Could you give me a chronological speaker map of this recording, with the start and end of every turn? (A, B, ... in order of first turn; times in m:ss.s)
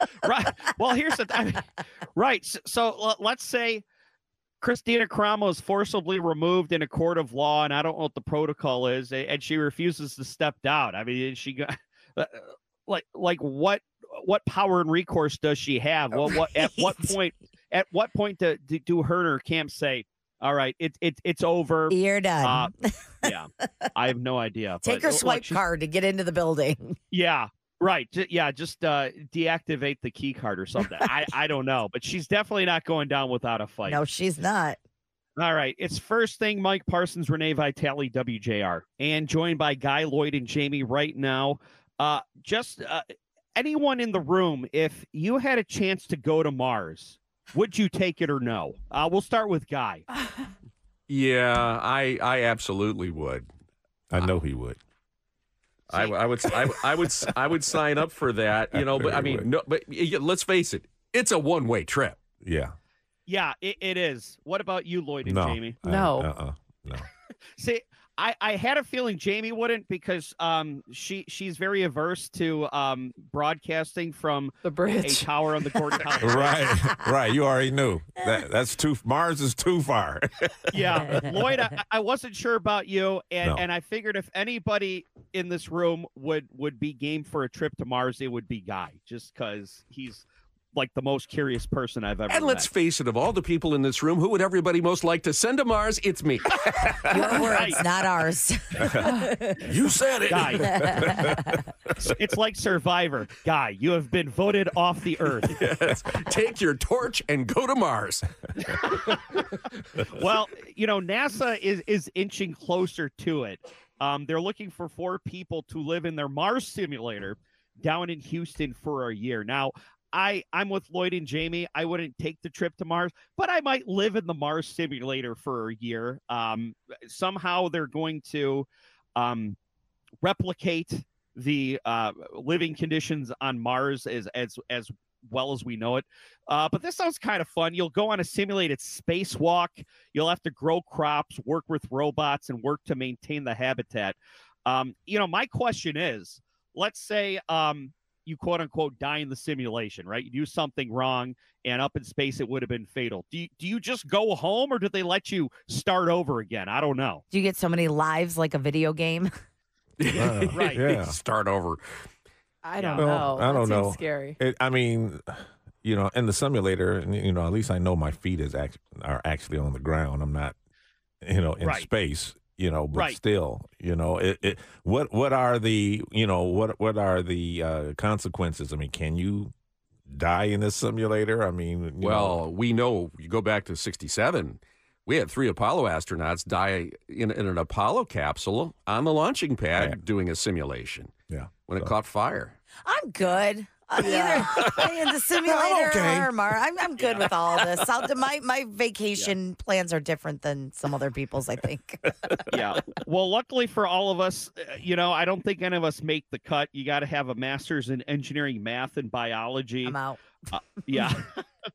0:00.2-0:03.8 A
0:04.6-0:22.7 A
0:16.2-0:17.1 B
0:21.9-0:23.2 B
0:23.2-0:25.6 A
0:24.8-0:26.9 B
0:27.1-0:34.0 A
0:33.8-0:34.8 B
0:35.4-0:43.0 A
0:43.6-0:50.0 A
0:51.1-0:53.5 C
0:54.1-0:54.8 D
0:55.9-1:02.2 C
0:58.7-0:59.5 D
1:02.4-1:02.7 D
1:03.3-1:05.8 A
1:05.2-1:07.1 D
1:05.8-1:06.3 E
1:07.6-1:16.7 A
1:14.6-1:16.1 E
1:16.2-1:21.3 D
1:20.7-1:32.7 A
1:32.3-1:37.5 C
1:37.1-1:39.6 B
1:37.1-1:37.8 A
1:38.8-1:39.1 D
1:39.7-1:41.6 D
1:39.8-1:40.5 C
1:40.3-1:40.7 A
1:40.7-1:41.5 B
1:42.0-1:45.6 A
1:45.5-1:49.2 C
1:50.0-2:09.6 A
2:10.2-2:37.2 A
2:37.3-2:39.3 B
2:40.0-2:42.1 C
2:40.1-2:41.2 D
2:40.5-2:40.8 A
2:42.6-2:44.4 E
2:42.8-2:43.1 A
2:43.0-2:50.6 D
2:51.2-2:59.5 D
2:51.6-2:51.9 A
2:52.9-2:53.2 A
3:00.1-3:02.4 D
3:02.0-3:11.1 C
3:09.7-3:10.0 D
3:11.3-3:11.9 D
3:11.6-3:12.6 C
3:12.8-3:22.5 B
3:14.0-3:14.7 D
3:15.4-3:16.3 D
3:17.0-3:17.3 A
3:22.5-3:30.0 A
3:29.8-3:30.2 B
3:30.5-3:31.4 A